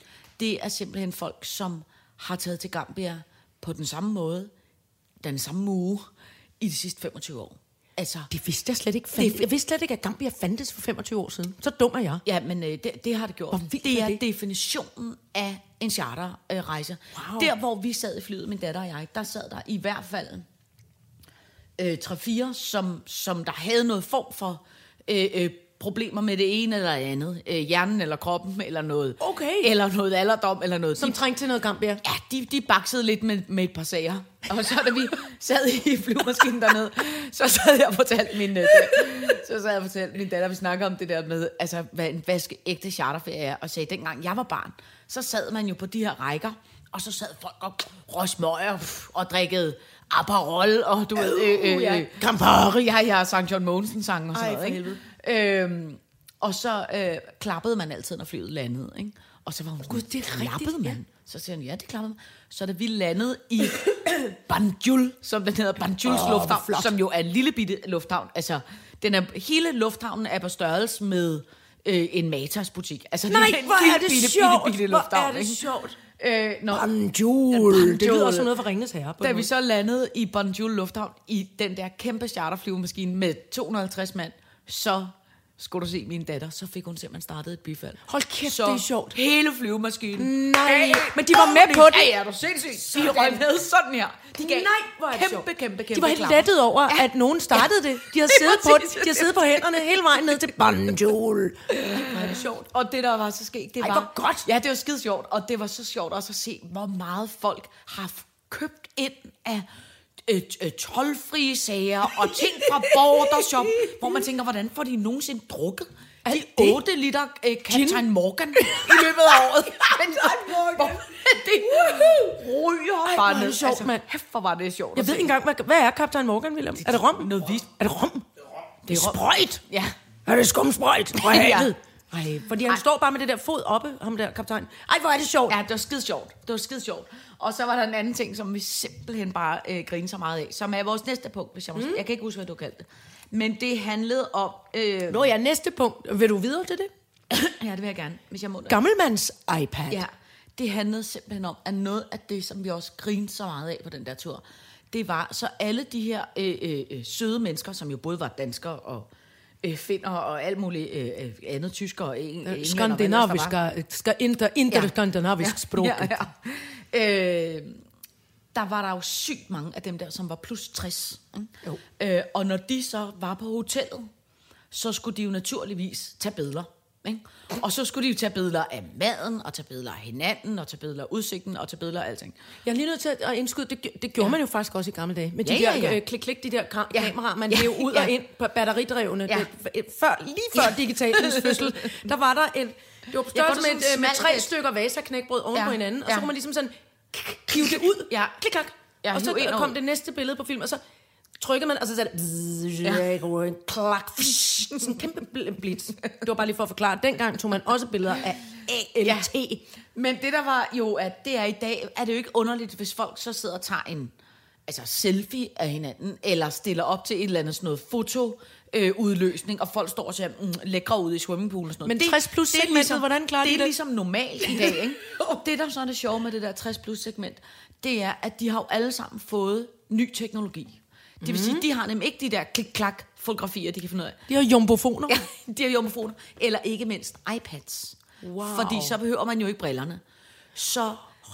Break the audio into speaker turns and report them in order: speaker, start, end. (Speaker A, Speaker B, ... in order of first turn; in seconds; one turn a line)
Speaker A: 0.4-4.5
Speaker A: 5.2-6.1
Speaker A: 6.6-8.3
Speaker B: 8.3-12.2
Speaker A: 9.2-9.5
Speaker A: 12.2-20.4
Speaker B: 13.5-14.2
Speaker B: 17.1-17.5
Speaker A: 21.8-31.2
Speaker B: 29.2-29.7
Speaker B: 30.9-32.0
Speaker A: 32.0-75.6
Speaker B: 51.2-52.9
Speaker B: 54.3-55.0
Speaker B: 59.9-61.0
Speaker B: 66.0-66.9
Speaker B: 73.3-76.0
Speaker A: 76.2-76.9
Speaker B: 76.7-79.5
Speaker A: 77.5-78.5
Speaker A: 79.2-100.2
Speaker B: 88.1-89.2
Speaker B: 90.2-92.1
Speaker B: 92.8-93.5
Speaker B: 94.4-102.4
Speaker A: 101.7-109.7
Speaker B: 103.8-104.5
Speaker A: 110.2-125.3
Speaker B: 112.1-114.2
Speaker B: 116.2-116.8
Speaker B: 117.7-121.0
Speaker B: 121.6-122.4
Speaker B: 123.0-124.0
Speaker B: 124.9-128.2
Speaker A: 126.8-127.7
Speaker A: 128.8-129.9
Speaker B: 128.9-129.6
Speaker B: 130.2-135.6
Speaker A: 131.2-132.8
Speaker A: 135.5-145.2
Speaker B: 141.7-142.0
Speaker B: 145.1-146.9
Speaker A: 147.3-148.8
Speaker B: 148.7-150.0
Speaker A: 149.9-159.1
Speaker A: 159.6-163.6
Speaker B: 162.4-166.2
Speaker A: 164.7-167.8
Speaker A: 168.5-174.1
Speaker A: 174.7-182.3
Speaker B: 182.6-200.8
Speaker A: 185.4-186.0
Speaker A: 186.9-188.1
Speaker A: 190.5-192.0
Speaker A: 193.3-194.5
Speaker A: 195.5-196.3
Speaker A: 197.5-198.4
Speaker A: 199.0-199.7
Speaker B: 201.4-209.6
Speaker A: 209.0-209.3
Speaker A: 209.9-214.1
Speaker A: 214.7-234.2
Speaker B: 221.8-223.7
Speaker B: 224.4-224.8
Speaker B: 231.2-231.6
Speaker B: 234.3-235.1
Speaker A: 235.1-240.0
Speaker B: 238.2-239.0
Speaker A: 240.5-241.1